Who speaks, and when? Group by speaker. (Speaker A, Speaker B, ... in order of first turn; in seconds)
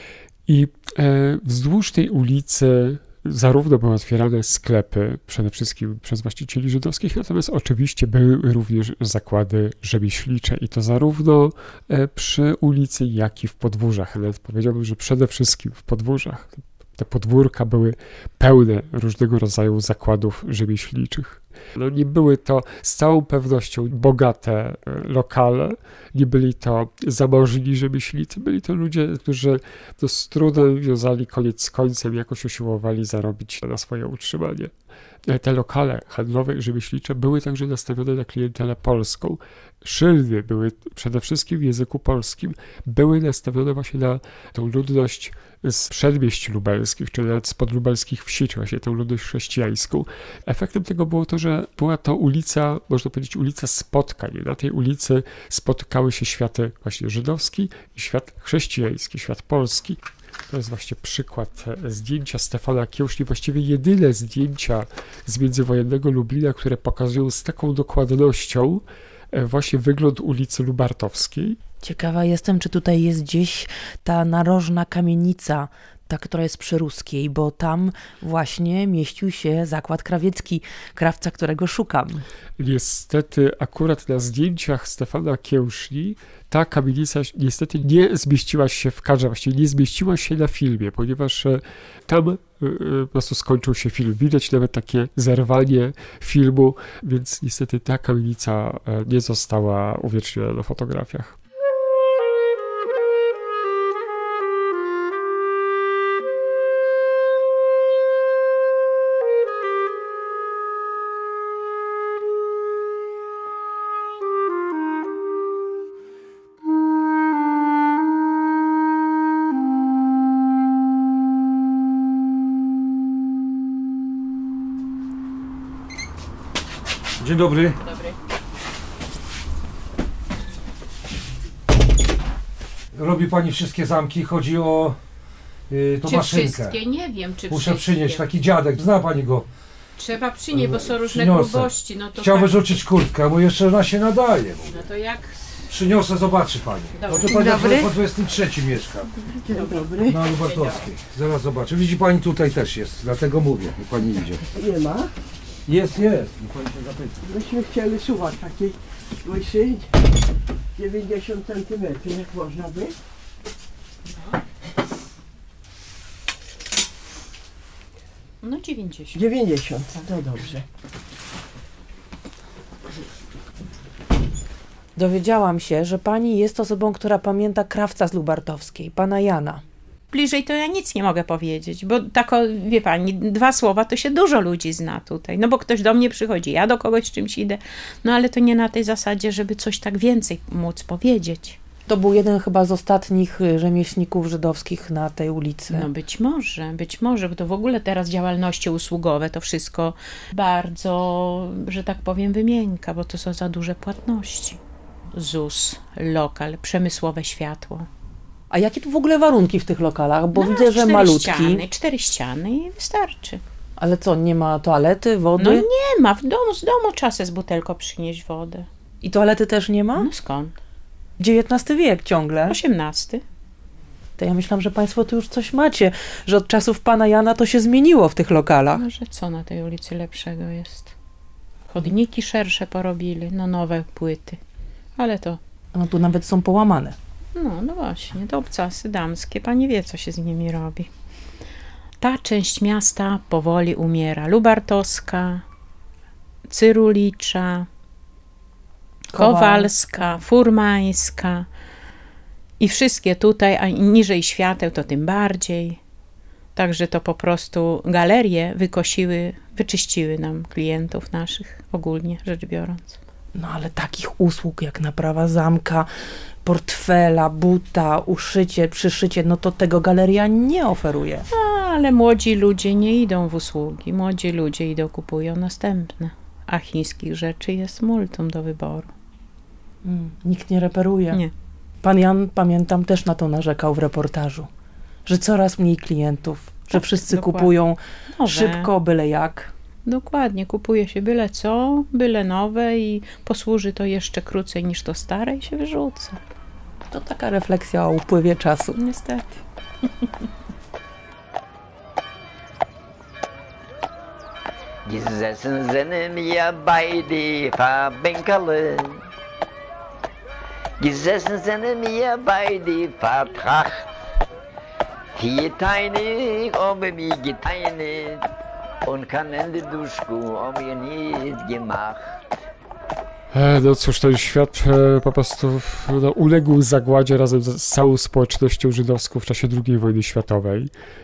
Speaker A: 0.5-34.7, 35.2-71.6, 82.6-101.4, 323.3-330.7
Speaker B: 71.8-82.2, 174.9-179.6, 191.9-195.9, 208.5-211.6, 213.8-215.7, 219.0-220.1, 221.2-222.6, 224.2-228.8, 235.7-236.9, 249.1-250.0, 263.3-265.9, 266.4-271.2, 279.8-281.2, 281.8-284.5, 285.1-289.5, 296.9-298.8
Speaker C: 127.2-127.8, 132.9-135.0, 135.7-136.8, 137.5-139.5, 140.5-144.9, 145.7-149.1, 150.0-154.4, 155.7-157.2
Speaker D: 136.0-138.2, 140.0-142.5, 144.7-145.3, 147.0-147.8, 150.4-150.8, 168.4-169.2, 180.1-191.6, 195.7-204.6, 205.1-207.9, 210.3-213.4, 215.4-218.7, 220.0-220.5, 222.5-223.2, 228.7-230.9, 231.7-234.4, 234.9-235.4, 237.3-240.9, 242.0-245.4, 246.5-247.7, 249.1-251.5, 252.6-255.8, 256.6-263.0, 271.3-278.9, 286.7-287.5, 288.1-288.7, 289.8-296.2, 298.8-299.4
Speaker E: 147.4-147.8, 149.3-150.2, 154.4-155.1, 157.2-159.9, 160.8-162.9, 169.1-170.6
Speaker F: 304.9-309.0, 310.8-313.8, 315.1-318.2, 318.9-322.2